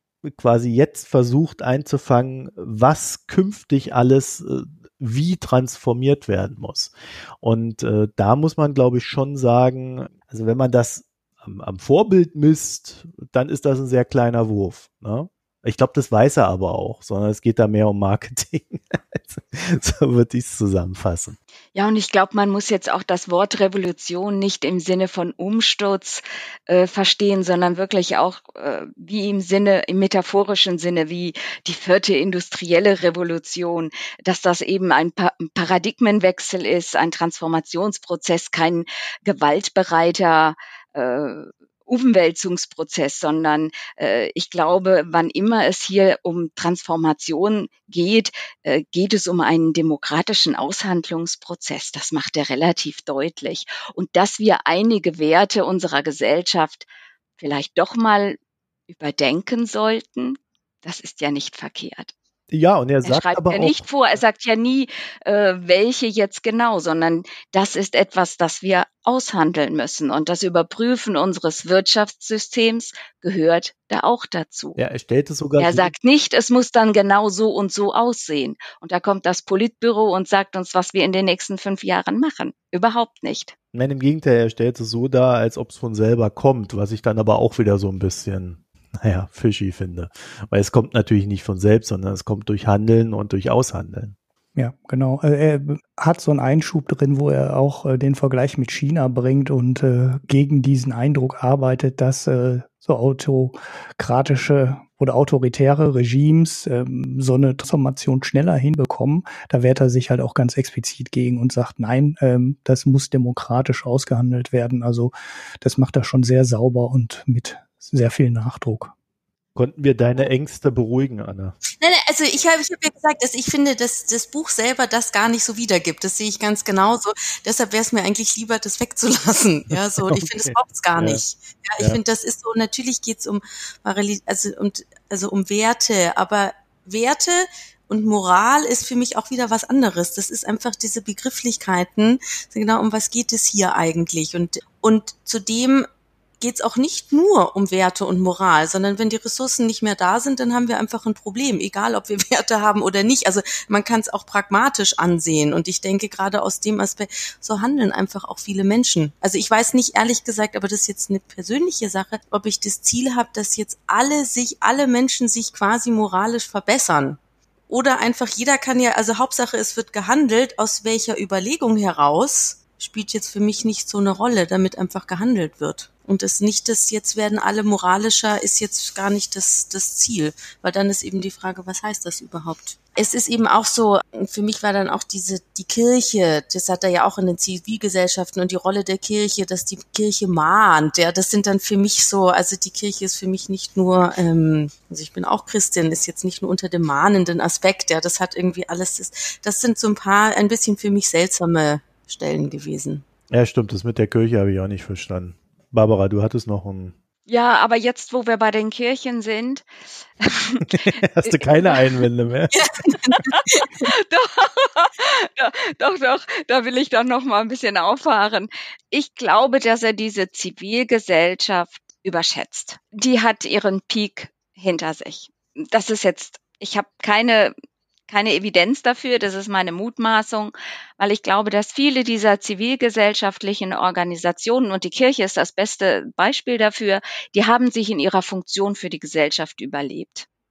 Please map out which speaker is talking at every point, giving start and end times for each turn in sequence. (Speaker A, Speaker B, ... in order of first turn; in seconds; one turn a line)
Speaker A: 0.2-21.4
Speaker B: 21.7-56.9
Speaker B: 57.4-58.4
Speaker B: 58.9-62.1
Speaker A: 62.5-63.8
Speaker B: 63.0-74.8
Speaker A: 74.8-75.9
Speaker B: 75.6-83.5
Speaker A: 83.7-94.1
Speaker C: 94.5-118.9
Speaker A: 119.5-121.5
Speaker D: 121.8-145.9
Speaker A: 130.1-131.2
Speaker D: 146.4-203.0
Speaker A: 203.3-206.9
Speaker B: 207.3-209.6
Speaker B: 210.2-212.1
Speaker A: 210.7-212.6
Speaker D: 212.5-213.7
Speaker B: 213.2-227.5
Speaker B: 228.1-240.2